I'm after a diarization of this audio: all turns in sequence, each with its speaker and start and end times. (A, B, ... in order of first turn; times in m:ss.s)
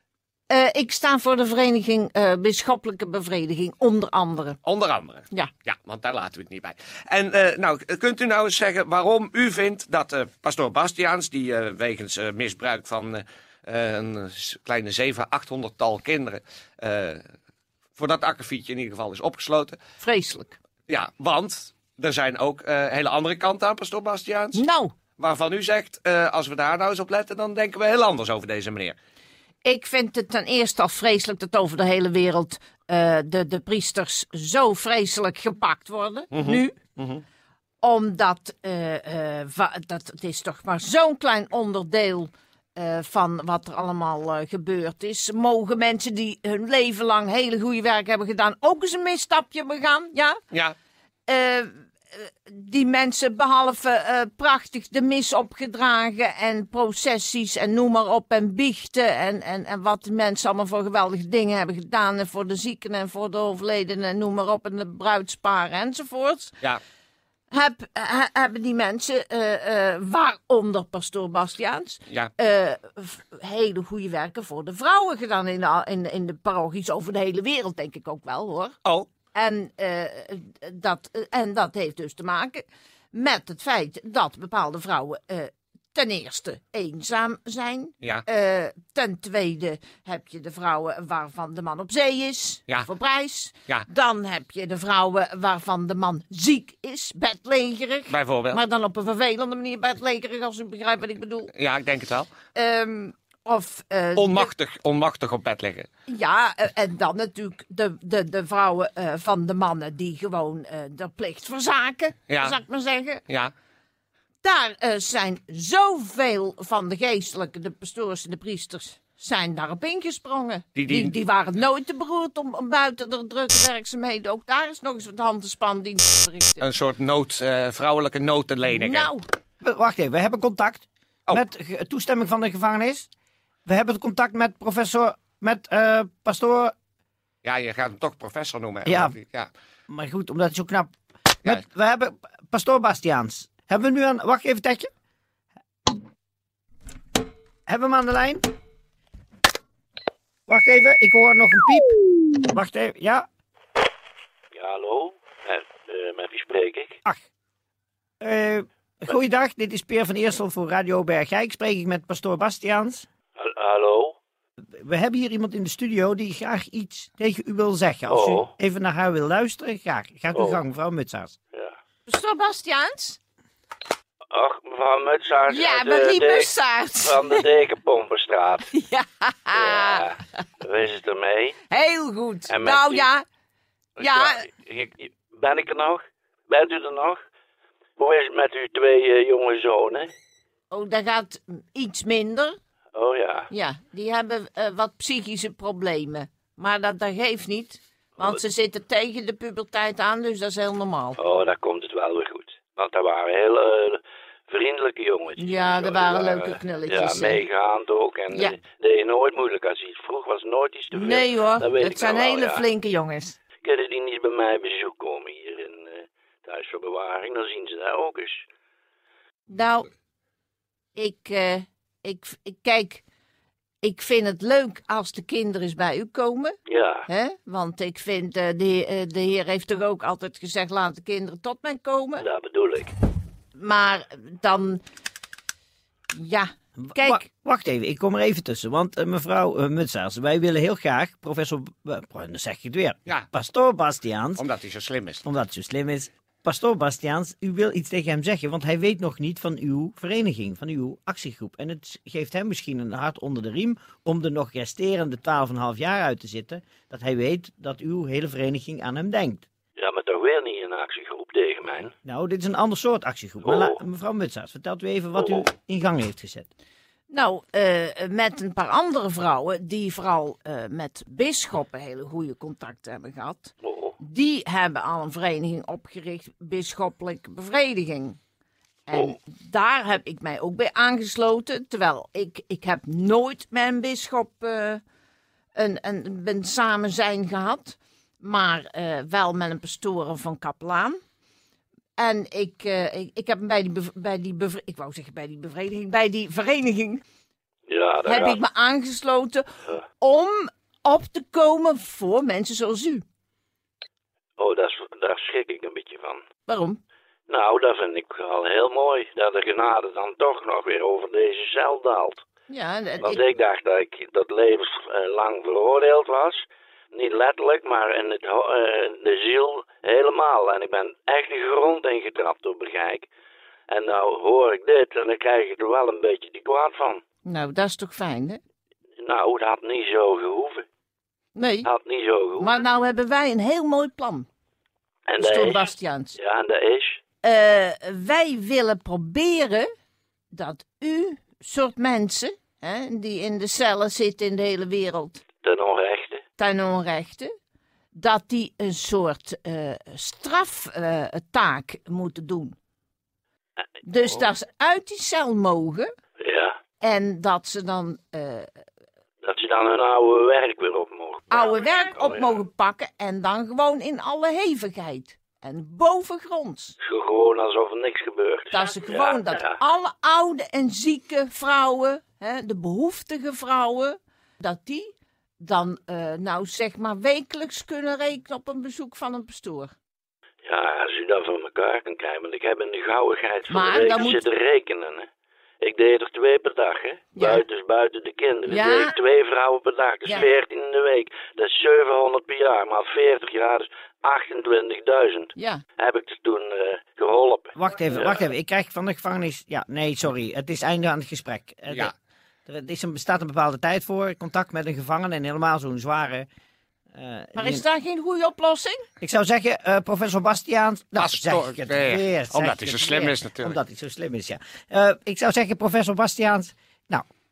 0:00.5-0:04.6 A
0:04.6-0:17.2 B
0:18.0-0:19.8 B
0:20.0-0:20.6 A
0:20.9-0:24.6 B
0:24.6-0:24.9 A
0:25.2-0:29.0 B
0:29.6-0:36.8 A
0:36.3-0:37.2 B
0:37.8-0:50.4 A
0:51.3-1:06.6 A
1:07.5-1:18.8 A
1:19.3-1:41.5 A
1:38.1-1:38.6 B
1:41.5-1:42.3 B
1:42.5-1:44.5 A
1:44.2-1:45.9 B
1:46.1-1:53.2 A
1:52.3-1:52.6 B
1:54.4-2:06.7 A
2:00.8-2:01.2 B
2:06.6-2:09.1 B
2:08.7-2:09.3 A
2:09.6-2:13.1 C
2:13.7-2:16.7 C
2:17.4-2:19.5 B
2:18.9-2:19.2 C
2:19.9-2:24.9 C
2:27.7-2:28.4 C
2:30.5-2:33.3 C
2:34.5-2:37.0 D
2:38.2-2:43.1 C
2:43.4-2:44.2 D
2:44.8-2:51.4 C
2:48.1-2:48.5 D
2:50.3-2:50.6 D
2:52.1-2:53.2 A
2:54.3-2:58.7 D
2:55.5-2:57.4 A
2:58.7-3:00.1 A
2:59.5-3:01.6 D
3:01.7-3:03.2 A
3:02.5-3:03.1 D
3:04.0-3:07.2 D
3:04.0-3:04.4 A
3:08.0-3:10.1 D
3:10.7-3:12.6 A
3:12.9-3:13.5 D
3:13.5-3:21.2 A
3:21.2-3:32.6 D
3:25.4-3:27.4 A
3:30.9-3:33.4 A
3:33.6-3:38.4 D
3:39.5-3:39.9 A
3:41.0-3:43.0 A
3:43.8-3:52.3 A
3:46.7-3:47.0 D
3:52.2-3:52.9 D
3:53.6-3:54.8 A
3:56.1-3:57.2 A
3:56.8-4:04.4 C
4:04.4-4:05.2 B
4:05.2-4:19.4 C
4:19.8-4:21.9 D
4:22.0-4:26.5 C
4:23.4-4:23.8 D
4:27.1-4:38.2 A
4:33.6-4:34.0 D
4:38.9-4:44.8 A
4:45.6-4:51.0 A
4:52.0-4:57.0 A
4:57.7-4:58.4 D
4:58.0-4:59.5 A
5:00.0-5:03.0 A
5:04.4-5:06.2 D
5:06.5-5:06.8 A
5:07.3-5:12.2 D
5:12.5-5:13.2 A
5:13.0-5:23.1 D
5:23.7-5:27.0 D
5:27.2-5:28.4 A
5:29.0-5:30.6 D
5:31.4-5:31.7 A
5:31.6-5:32.5 D
5:32.4-5:34.3 A
5:35.1-5:37.0 D
5:35.2-5:36.2 A
5:37.2-5:39.7 A
5:40.3-5:45.2 A
5:45.4-5:46.2 D
5:46.4-5:47.3 A
5:48.0-5:52.6 A
5:53.8-5:55.9 A
5:56.2-5:56.6 D
5:56.8-5:58.5 A
5:59.2-6:02.2 D
6:01.3-6:06.8 A
6:06.8-6:09.6 D
6:08.5-6:19.7 A
6:20.4-6:25.1 D
6:23.5-6:24.2 A
6:25.6-6:38.2 D
6:27.2-6:27.4 A
6:28.5-6:29.0 A
6:35.4-6:35.6 A
6:37.6-6:41.9 C
6:42.5-6:46.3 C
6:46.9-6:47.6 C
6:47.4-6:48.9 A
6:49.0-6:57.1 C
6:51.0-6:53.6 B